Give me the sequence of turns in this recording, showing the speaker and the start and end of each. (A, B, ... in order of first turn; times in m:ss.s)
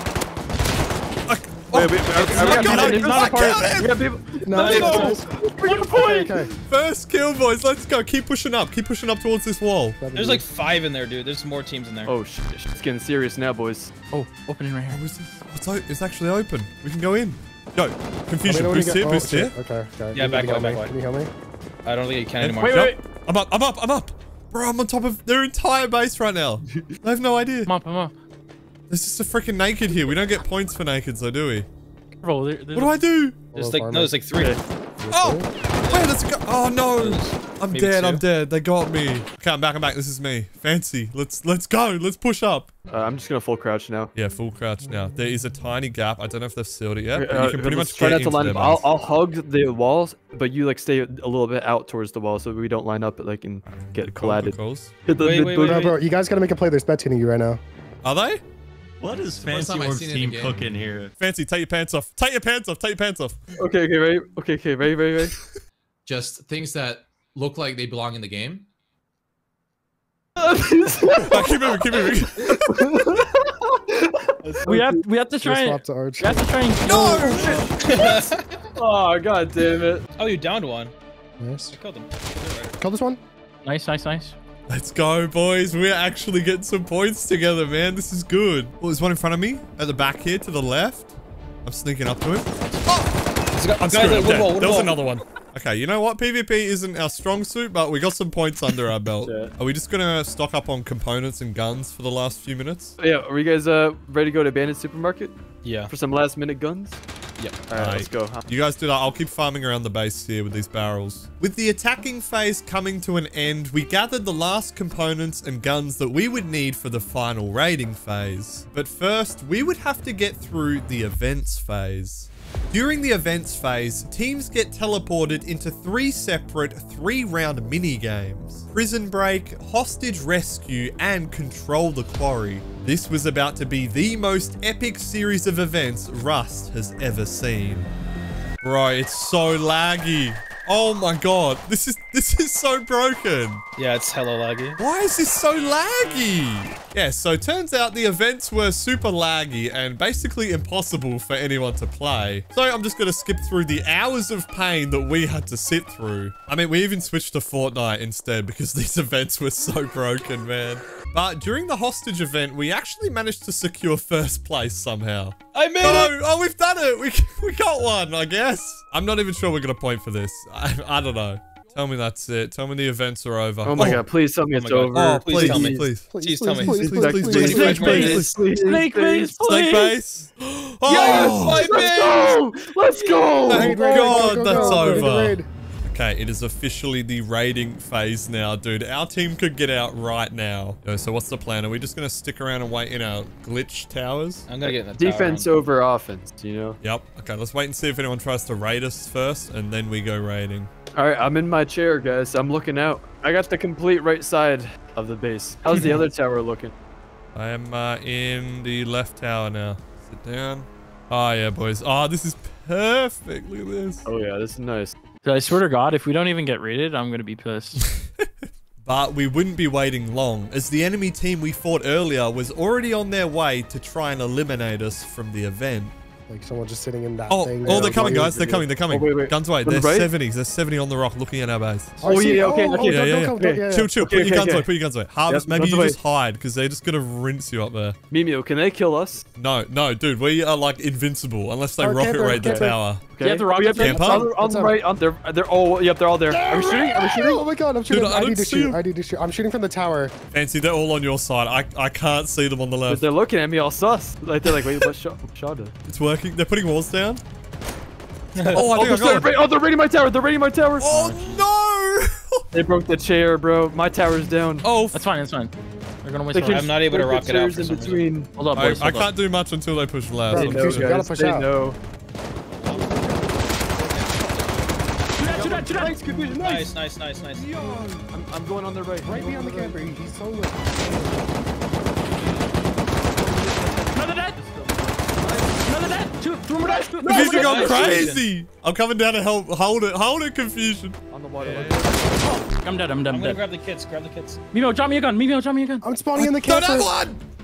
0:01.3-0:04.0 A
0:01.7-0:05.2 B
0:02.1-0:03.6 C
0:02.4-0:03.8 D
0:04.4-0:06.5 E
0:04.5-0:05.2 C
0:04.6-0:06.5 D
0:06.7-0:10.0 A
0:10.0-0:10.4 E
0:10.1-0:12.2 C
0:12.1-0:13.9 B
0:14.1-0:15.0 D
0:14.9-0:19.6 A
0:18.4-0:21.3 E
0:20.1-0:20.9 C
0:21.8-0:22.8 C
0:22.4-0:27.7 A
0:22.6-0:23.0 D
0:27.7-0:28.1 D
0:28.9-0:31.7 A
0:32.2-0:33.0 D
0:32.7-0:33.4 A
0:33.5-0:34.2 E
0:33.5-0:34.6 C
0:34.4-0:34.6 B
0:35.0-0:35.5 E
0:35.1-0:42.7 A
0:35.8-0:36.1 C
0:37.0-0:38.2 C
0:42.9-0:44.1 B
0:44.2-0:48.9 A
0:47.2-0:55.9 B
0:53.7-0:54.9 A
0:55.2-0:56.0 C
0:55.6-0:57.6 E
0:58.0-0:58.4 A
0:59.0-1:01.1 F
0:59.2-1:00.7 G
1:01.2-1:03.4 A
1:03.6-1:05.4 B
1:06.1-1:08.7 G
1:10.4-1:15.0 B
1:11.2-1:13.0 A
1:14.6-1:17.6 D
1:15.4-1:16.6 E
1:16.8-1:17.6 A
1:16.9-1:20.0 B
1:17.8-1:18.5 C
1:20.2-1:20.9 C
1:21.4-1:21.8 E
1:21.7-1:22.8 C
1:22.8-1:23.2 E
1:23.6-1:24.4 D
1:24.7-1:31.1 A
1:31.6-1:33.2 A
1:33.5-1:35.0 C
1:33.8-1:43.0 A
1:39.2-1:39.5 B
1:43.0-1:45.4 B
1:45.6-1:45.9 C
1:45.9-1:47.0 B
1:47.7-1:48.4 B
1:47.8-2:17.9 A
2:18.6-2:23.6 A
2:23.8-2:24.8 C
2:24.8-2:54.0 A
2:45.5-2:46.1 C
2:53.6-2:55.8 B
2:54.5-2:58.3 C
2:54.9-2:56.1 A
2:56.1-2:57.9 E
2:56.6-2:58.4 A
2:56.9-2:59.4 B
2:57.4-3:00.0 D
2:59.4-3:01.8 A
3:00.8-3:05.1 B
3:00.9-3:03.4 C
3:03.5-3:05.5 E
3:03.5-3:14.5 A
3:14.5-3:15.5 C
3:14.6-3:16.8 B
3:16.8-3:20.7 A
3:21.0-3:26.7 B
3:27.4-3:34.0 A
3:34.0-3:35.0 B
3:35.2-3:37.8 D
3:37.8-3:46.0 A
3:46.3-3:48.3 E
3:47.3-3:52.1 A
3:47.6-3:50.1 B
3:52.0-3:54.0 E
3:52.0-3:54.7 B
3:52.8-3:58.0 A
3:55.3-3:56.0 B
3:58.1-3:59.2 B
3:59.4-4:03.1 A
4:01.8-4:02.8 E
4:02.4-4:07.5 B
4:03.2-4:04.3 D
4:03.7-4:04.3 A
4:04.0-4:04.8 E
4:06.3-4:10.1 E
4:07.9-4:08.8 A
4:10.3-4:13.0 A
4:12.9-4:15.7 B
4:15.9-4:17.2 A
4:18.4-4:18.6 C
4:18.4-4:21.1 B
4:18.5-4:19.4 A
4:20.8-4:22.5 A
4:22.5-4:24.7 B
4:24.6-4:25.0 A
4:24.9-4:25.5 D
4:26.0-4:26.7 D
4:26.3-4:28.9 B
4:26.5-4:28.1 C
4:28.4-4:29.1 D
4:28.6-4:30.9 A
4:30.3-4:31.5 E
4:30.3-4:31.8 B
4:33.8-4:34.4 C
4:35.2-4:36.0 D
4:35.2-4:36.7 B
4:36.3-4:37.5 C
4:37.4-4:38.0 A
4:38.1-4:39.8 B
4:39.0-4:41.4 E
4:43.2-4:44.0 B
4:43.9-4:48.1 D
4:45.2-4:45.6 B
4:46.7-4:47.7 B
4:47.0-4:51.9 A
4:47.1-4:48.2 C
4:51.1-4:52.3 B
4:52.2-4:53.4 D
4:53.1-4:54.4 C
4:54.5-4:55.8 D
4:55.8-4:57.0 E
4:56.2-4:57.2 A